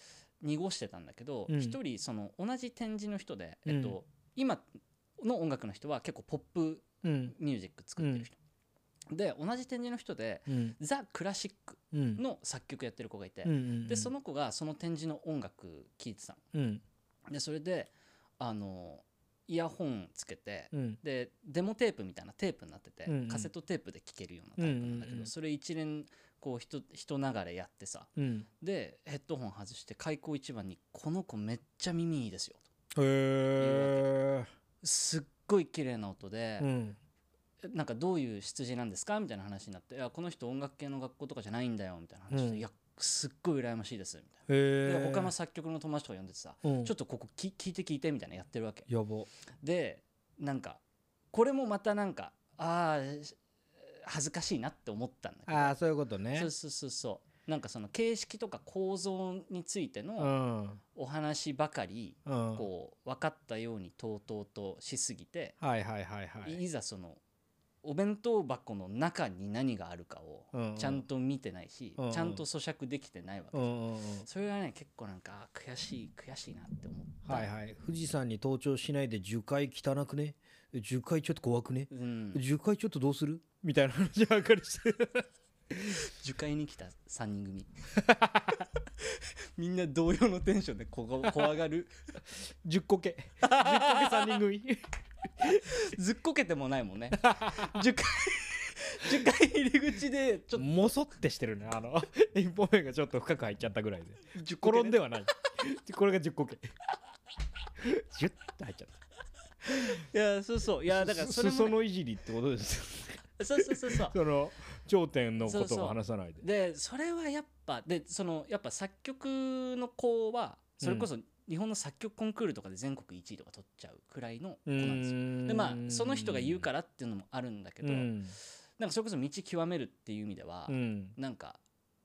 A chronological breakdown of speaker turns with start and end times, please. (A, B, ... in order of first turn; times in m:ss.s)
0:00.4-0:04.6 A
0:01.5-0:01.8 B
0:03.6-0:04.0 B
0:05.2-0:08.4 A
0:07.0-0:07.3 B
0:08.0-0:08.2 B
0:09.1-0:16.4 A
0:10.5-0:10.8 B
0:11.9-0:12.2 B
0:13.4-0:14.1 B
0:16.5-0:16.8 B
0:17.3-0:32.6 A
0:20.7-0:21.0 B
0:23.0-0:23.5 B
0:24.6-0:25.3 B
0:28.2-0:28.5 B
0:32.9-0:34.5 B
0:33.6-0:34.1 A
0:34.8-0:36.7 A
0:36.6-0:37.0 B
0:37.6-0:48.9 A
0:42.3-0:42.6 B
0:44.5-0:45.3 B
0:46.6-0:46.9 B
0:48.9-0:49.3 B
0:49.6-0:50.8 A
0:51.3-0:53.4 A
0:53.9-0:55.7 A
0:55.5-0:56.5 B
0:56.3-1:00.3 A
1:00.2-1:00.8 B
1:00.9-1:05.6 A
1:02.2-1:02.6 B
1:05.6-1:06.6 B
1:06.4-1:07.2 A
1:07.8-1:17.5 A
1:10.5-1:11.0 B
1:12.0-1:12.4 B
1:13.5-1:14.3 B
1:17.2-1:26.0 B
1:21.9-1:22.4 A
1:26.0-1:27.7 A
1:28.0-1:28.6 B
1:29.1-1:31.9 A
1:32.6-1:34.8 B
1:33.4-1:34.4 A
1:35.4-1:35.7 B
1:35.6-1:40.9 A
1:37.2-1:37.8 B
1:40.5-1:46.7 B
1:44.3-1:45.0 A
1:47.8-1:49.0 B
1:49.6-1:50.0 B
1:50.0-1:51.8 A
1:50.9-1:56.4 B
1:53.4-1:54.2 A
1:55.4-2:11.6 A
2:00.8-2:01.1 B
2:04.7-2:06.6 B
2:07.8-2:08.4 B
2:10.7-2:11.2 B